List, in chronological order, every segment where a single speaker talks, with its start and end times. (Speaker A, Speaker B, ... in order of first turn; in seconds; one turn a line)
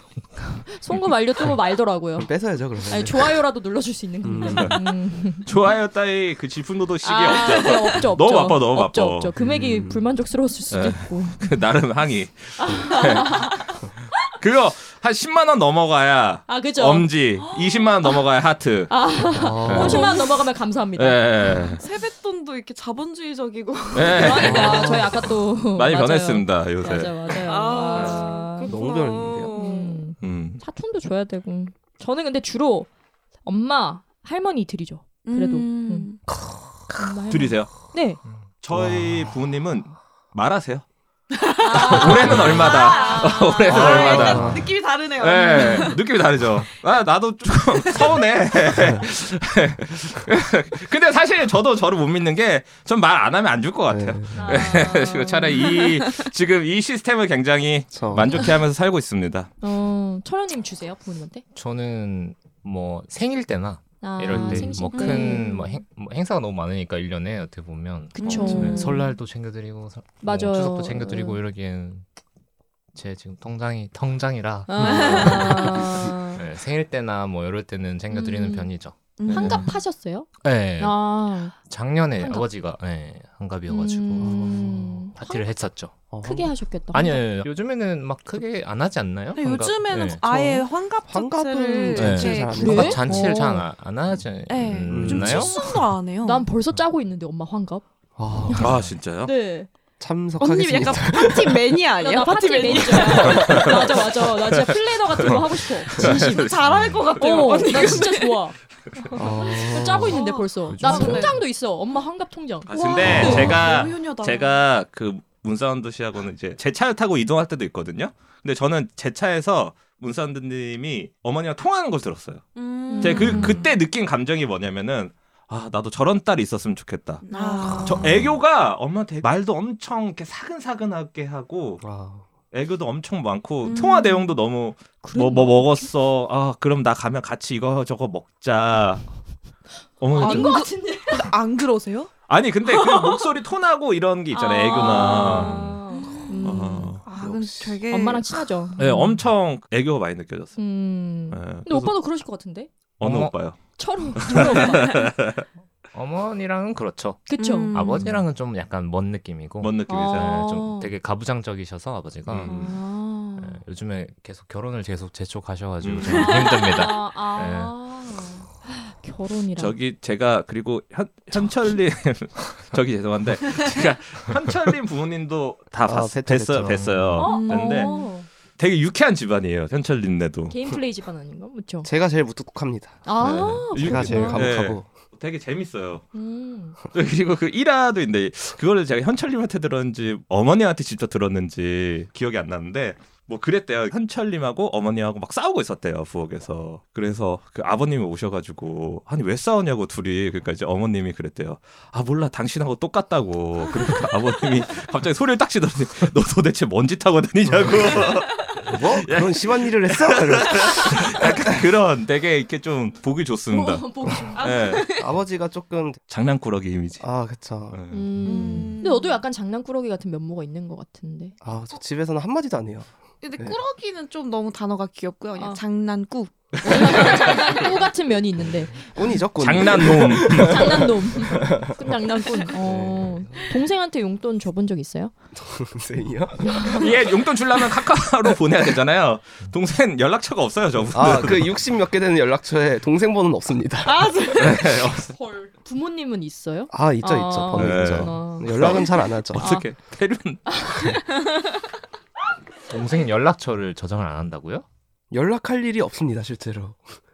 Speaker A: 0.3-5.5
Speaker B: 2.2-3.4
Speaker B: 4.2-4.8
Speaker C: 4.5-4.8
Speaker C: 5.4-9.3
Speaker A: 7.0-11.4
Speaker B: 9.3-10.0
Speaker C: 10.7-13.8
Speaker A: 12.6-13.7
Speaker C: 14.4-18.9
Speaker A: 16.5-17.1
Speaker A: 18.9-21.3
Speaker B: 19.3-20.1
Speaker C: 19.7-20.1
Speaker D: 19.7-20.3
Speaker C: 20.9-21.8
Speaker D: 21.8-24.8
Speaker C: 23.9-27.3
Speaker A: 24.1-28.7
Speaker B: 24.4-25.0
Speaker D: 27.3-30.0
Speaker C: 27.9-28.3
Speaker B: 28.6-29.6
Speaker A: 29.5-32.9
Speaker C: 30.2-30.6
Speaker A: 33.4-36.3
Speaker D: 35.2-36.2
Speaker A: 36.9-38.2
Speaker C: 37.3-37.7
Speaker C: 38.6-40.8
Speaker B: 38.7-39.3
Speaker D: 41.3-46.0
Speaker A: 41.6-44.4
Speaker C: 41.8-44.7
Speaker B: 43.7-44.7
Speaker C: 45.2-59.5
Speaker A: 45.5-45.9
Speaker B: 53.9-54.4
Speaker A: 54.4-55.6
Speaker E: 54.4-54.8
Speaker B: 57.9-58.5
Speaker A: 59.6-61.4
Speaker E: 61.5-72.0
Speaker A: 64.0-65.8
Speaker B: 64.3-64.8
Speaker D: 64.9-65.5
Speaker A: 68.2-69.1
Speaker D: 68.2-69.1
Speaker A: 70.2-71.4
Speaker E: 72.9-79.7
Speaker A: 74.7-76.4
Speaker D: 74.8-75.9
Speaker A: 78.1-81.6
Speaker D: 79.2-79.7
Speaker E: 80.4-86.1
Speaker A: 82.2-82.5
Speaker A: 83.7-85.5
Speaker B: 84.2-84.8
Speaker B: 86.1-86.5
Speaker A: 86.2-87.3
Speaker E: 86.9-90.2
Speaker D: 89.3-93.1
Speaker B: 90.2-93.0
Speaker E: 91.9-95.7
Speaker A: 92.5-93.6
Speaker D: 94.5-96.5
Speaker B: 94.9-95.5
Speaker A: 96.2-97.8
Speaker B: 98.2-98.9
Speaker C: 98.6-99.3
Speaker A: 99.2-99.7
Speaker B: 100.0-101.7
Speaker D: 100.4-104.0
Speaker A: 102.0-106.5
Speaker B: 103.0-103.9
Speaker C: 103.4-103.7
Speaker C: 104.6-108.0
Speaker D: 106.0-108.4
Speaker A: 107.2-113.5
Speaker B: 109.1-110.2
Speaker D: 109.6-111.4
Speaker E: 110.7-111.4
Speaker C: 112.7-127.2
Speaker D: 112.7-114.6
Speaker B: 113.2-113.5
Speaker E: 113.2-113.5
Speaker D: 122.5-123.7
Speaker A: 122.9-123.7
Speaker D: 127.2-128.2
Speaker A: 127.3-128.0
Speaker C: 127.8-131.8
Speaker B: 131.8-132.2
Speaker C: 132.5-139.0
Speaker D: 133.6-134.3
Speaker A: 135.0-135.9
Speaker C: 140.0-140.7
Speaker A: 140.1-141.3
Speaker D: 140.1-142.1
Speaker C: 142.3-145.8
Speaker D: 142.7-143.2
Speaker A: 144.3-147.0
Speaker D: 144.4-146.4
Speaker C: 146.4-147.3
Speaker D: 147.1-148.2
Speaker B: 147.2-147.8
Speaker A: 147.9-149.2
Speaker C: 148.8-150.6
Speaker A: 150.6-152.7
Speaker C: 151.3-151.9
Speaker C: 153.0-155.4
Speaker E: 153.0-153.3
Speaker A: 153.8-155.1
Speaker E: 155.9-162.5
Speaker A: 157.3-158.1
Speaker D: 157.4-158.2
Speaker C: 159.6-160.4
Speaker A: 159.9-160.9
Speaker C: 162.3-162.7
Speaker A: 162.4-163.6
Speaker E: 163.4-167.8
Speaker C: 165.8-166.4
Speaker A: 166.5-169.7
Speaker C: 169.6-177.9
Speaker B: 175.8-176.9
Speaker E: 176.6-177.3
Speaker A: 177.2-178.3
Speaker D: 177.2-178.1
Speaker C: 178.6-180.5
Speaker A: 180.5-181.9
Speaker B: 181.8-184.9
Speaker A: 183.1-184.5
Speaker C: 183.2-186.0
Speaker A: 186.1-186.7
Speaker C: 186.9-214.8
Speaker B: 207.5-207.9
Speaker B: 208.6-211.6
Speaker A: 213.5-214.8
Speaker D: 214.4-215.1
Speaker B: 214.9-216.0
Speaker C: 216.1-217.1
Speaker B: 217.0-217.8
Speaker C: 217.7-218.7
Speaker A: 217.9-221.3
Speaker D: 218.2-219.2
Speaker B: 221.4-223.6
Speaker D: 223.2-227.6
Speaker A: 226.6-228.9
Speaker B: 228.7-231.8
Speaker C: 229.4-231.0
Speaker A: 230.2-235.1
Speaker B: 232.6-233.5
Speaker B: 235.4-236.9
Speaker A: 236.4-236.9
Speaker C: 236.8-241.5
Speaker B: 240.9-244.2
Speaker D: 243.8-244.8
Speaker C: 244.4-245.1
Speaker A: 245.0-248.8
Speaker B: 246.7-249.5
Speaker C: 247.5-251.0
Speaker A: 249.4-249.7
Speaker A: 250.5-251.0
Speaker E: 252.7-254.6
Speaker B: 255.1-256.9